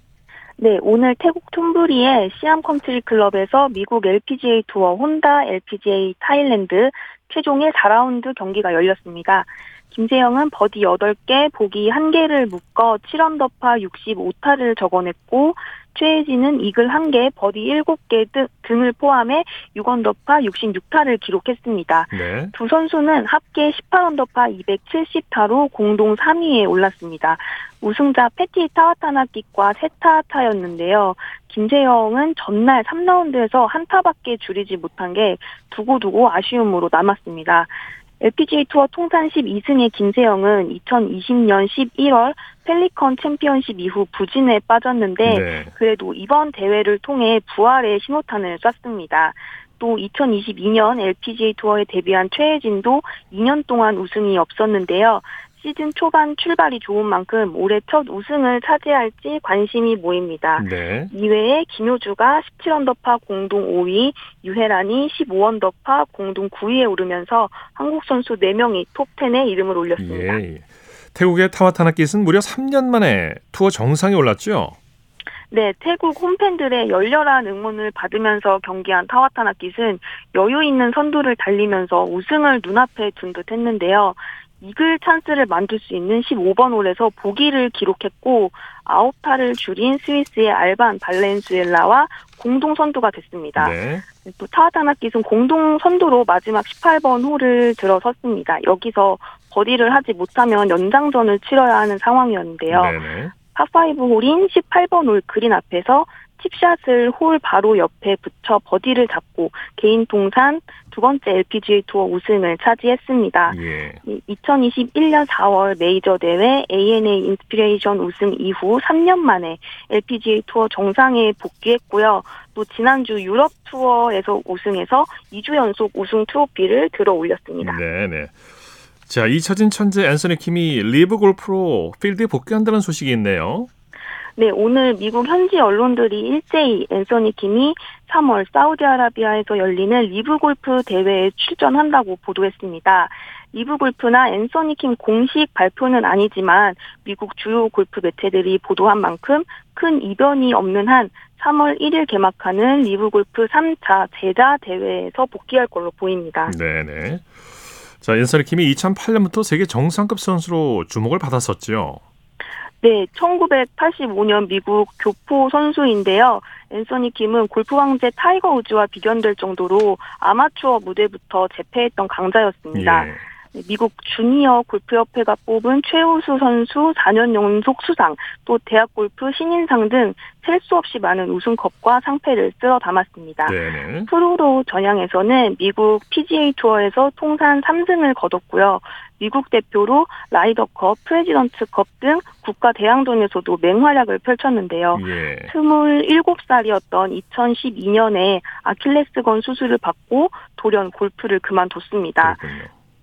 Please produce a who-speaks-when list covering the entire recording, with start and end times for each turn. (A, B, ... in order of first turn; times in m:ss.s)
0:00.6-1:10.4 A
0:22.1-0:22.5 B
0:45.2-0:45.7 B
1:00.6-1:01.1 B
1:10.0-1:14.8 B
1:15.5-2:07.8 A
1:33.6-1:34.0 B
1:42.7-1:43.3 B
1:53.4-1:54.0 B
2:07.6-2:08.4 B
2:09.1-2:13.7 B
2:14.4-2:36.5 A
2:36.4-2:37.4 B
2:38.0-2:42.0 B
2:42.8-3:22.4 A
2:52.7-2:53.2 B
3:03.4-3:04.1 B
3:14.9-3:15.5 B
3:22.2-3:22.7 B